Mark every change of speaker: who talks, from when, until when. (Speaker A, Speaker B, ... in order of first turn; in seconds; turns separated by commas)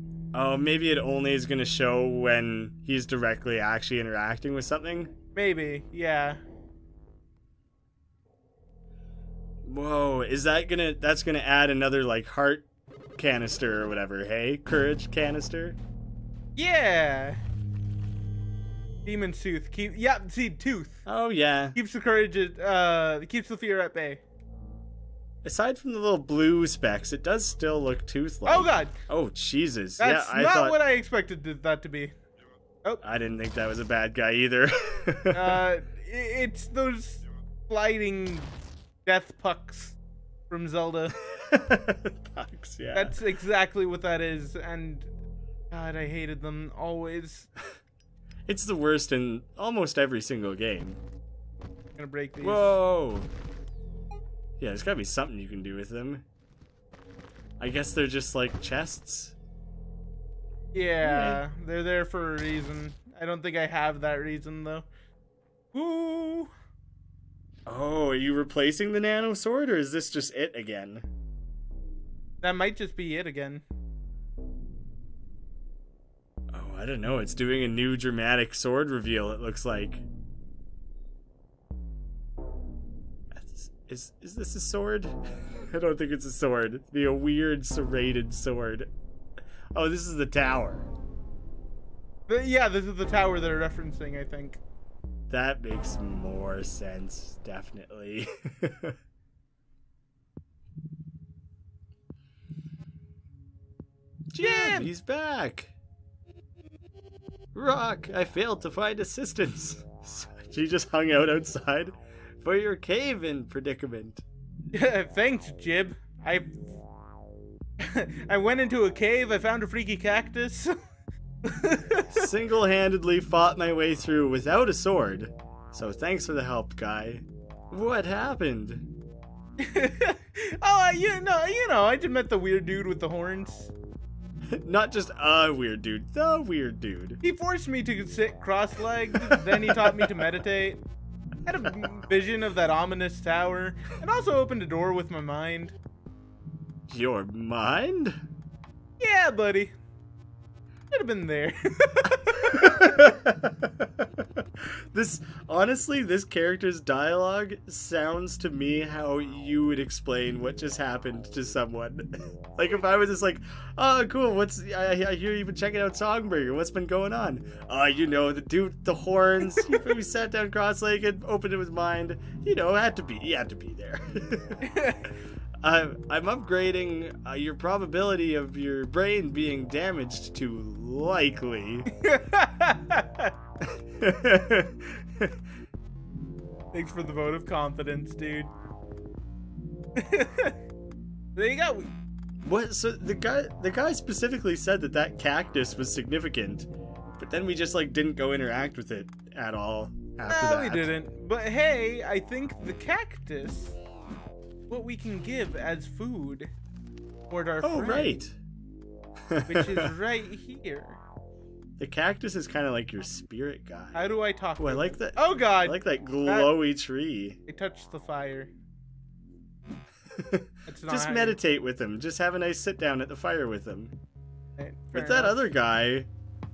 Speaker A: 0.3-5.1, Speaker B: 5.3-6.4, Speaker A: 9.6-15.8, Speaker B: 16.6-17.4, Speaker B: 19.0-21.0, Speaker A: 21.1-21.8, Speaker B: 21.7-24.2, Speaker A: 25.4-30.8, Speaker B: 28.4-28.9, Speaker B: 30.0-32.1, Speaker A: 33.0-35.6, Speaker B: 35.3-38.5, Speaker B: 39.0-40.0, Speaker B: 40.5-41.1, Speaker A: 41.3-43.1, Speaker B: 42.9-45.1, Speaker B: 45.7-47.5, Speaker A: 48.5-51.0, Speaker B: 52.0-52.8, Speaker A: 52.4-53.3, Speaker A: 54.6-56.2, Speaker A: 57.6-59.4, Speaker B: 60.7-64.9, Speaker A: 61.0-61.4, Speaker B: 65.7-66.5, Speaker A: 67.7-71.1, Speaker B: 72.4-73.6, Speaker A: 76.5-80.0, Speaker A: 83.3-88.9, Speaker A: 89.7-90.9, Speaker B: 92.3-94.6, Speaker A: 95.3-99.0, Speaker A: 104.3-105.7, Speaker B: 104.4-104.9, Speaker A: 107.5-114.2, Speaker B: 114.7-116.7, Speaker B: 117.8-120.7, Speaker B: 121.4-122.2, Speaker A: 122.1-128.9, Speaker B: 129.6-133.7, Speaker A: 134.6-137.2, Speaker B: 137.2-140.8, Speaker A: 139.3-140.1, Speaker B: 141.4-145.8, Speaker A: 146.9-148.2, Speaker B: 149.0-149.7, Speaker B: 150.9-153.0, Speaker A: 152.5-174.7, Speaker B: 174.6-175.1, Speaker A: 175.6-181.9, Speaker B: 181.9-183.3, Speaker A: 183.6-185.3, Speaker B: 186.7-188.5, Speaker B: 189.9-190.6, Speaker B: 191.3-191.9, Speaker A: 192.4-200.9, Speaker B: 200.3-203.8, Speaker B: 204.7-206.5, Speaker B: 207.3-208.2, Speaker A: 207.6-208.3, Speaker A: 209.3-209.9, Speaker B: 209.5-211.0, Speaker A: 211.8-217.4, Speaker B: 213.9-216.5, Speaker B: 217.5-218.5, Speaker A: 220.2-223.9, Speaker B: 220.7-221.4, Speaker B: 224.6-225.5, Speaker A: 224.9-226.1